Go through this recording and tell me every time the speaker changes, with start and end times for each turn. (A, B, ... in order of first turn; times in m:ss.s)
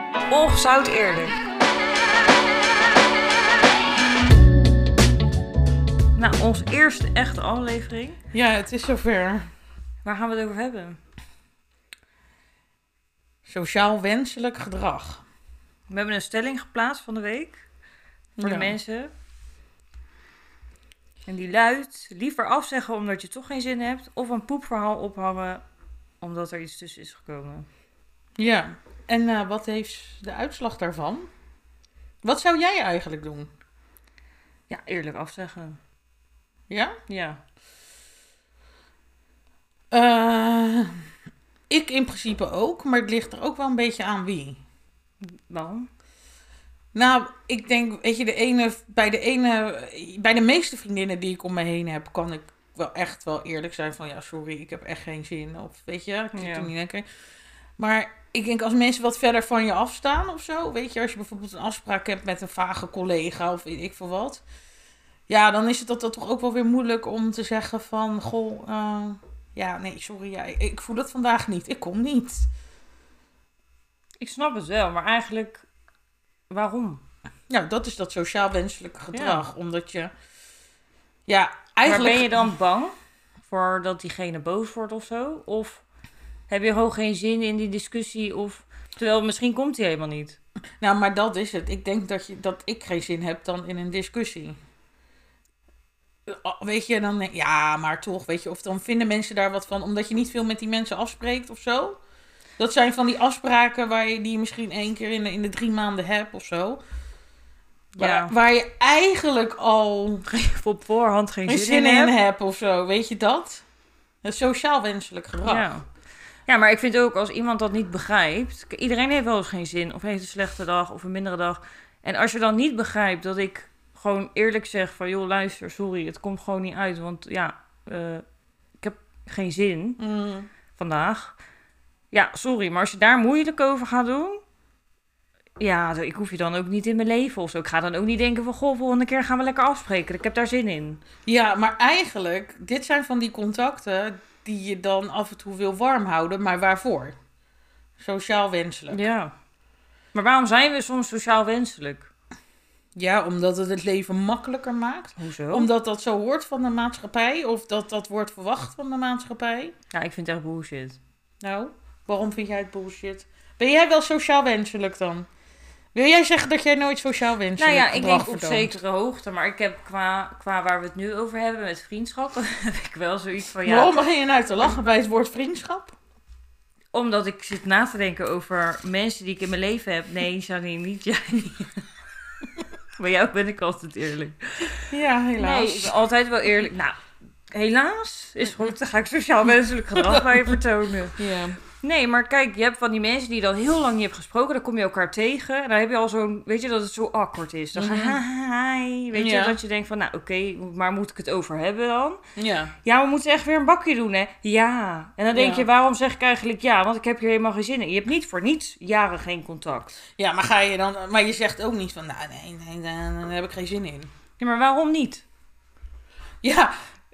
0:00.3-0:01.4 A
0:06.1-0:08.2 A
0:08.3-0:09.5 B
0:10.0-0:11.0 A
0:13.4-0:15.2 B
0:15.9-0:17.6 A
0:18.4-0:18.7 B
0:18.4-0:19.1 A
0:21.2-0:25.6 A
0:26.2-0:27.7 A
0:28.4-0:31.3 B
0:32.2-0:33.5 B
0:34.7-0:35.8 A
0:36.7-0:37.0 B
0:37.1-0:37.4 A
0:39.9-0:40.9 B
0:41.7-0:44.6 B
0:45.2-0:45.9 A
0:46.9-0:57.0 B
0:56.3-0:56.7 A
0:57.8-1:04.4 B
1:05.3-1:12.5 B
1:14.2-1:15.6 A
1:16.5-1:17.0 A
1:17.5-1:20.1 B
1:19.1-1:19.4 A
1:21.3-1:22.5 B
1:21.8-1:22.9 A
1:23.4-1:25.8 A
1:26.5-1:30.4 A
1:30.8-1:34.6 B
1:36.3-1:42.0 B
1:42.6-1:46.8 B
1:48.0-1:50.3 B
1:48.0-1:48.3 A
1:50.3-1:52.1 A
1:51.5-1:53.6 B
1:54.2-1:55.6 B
1:55.4-1:55.8 A
1:56.5-2:08.2 A
2:08.8-2:10.0 A
2:10.0-2:10.5 B
2:10.8-2:11.3 A
2:12.1-2:14.4 A
2:15.6-2:21.0 A
2:21.2-2:27.2 B
2:28.0-2:29.0 B
2:28.9-2:29.3 A
2:30.1-2:32.1 A
2:33.0-2:39.7 B
2:35.2-2:35.7 A
2:39.9-2:41.0 A
2:41.4-2:45.3 B
2:45.9-2:48.7 B
2:47.6-2:54.0 A
2:53.6-2:55.9 B
2:56.9-3:01.7 A
3:03.0-3:04.8 A
3:04.9-3:06.0 B
3:05.4-3:07.0 A
3:07.5-3:11.2 A
3:09.9-3:10.6 B
3:11.2-3:11.6 B
3:11.8-3:22.2 A
3:17.7-3:18.2 B
3:19.1-3:19.6 B
3:22.4-3:22.7 B
3:22.8-3:29.9 A
3:25.3-3:25.6 B
3:30.2-3:34.1 B
3:34.4-3:35.2 A
3:36.4-3:36.7 B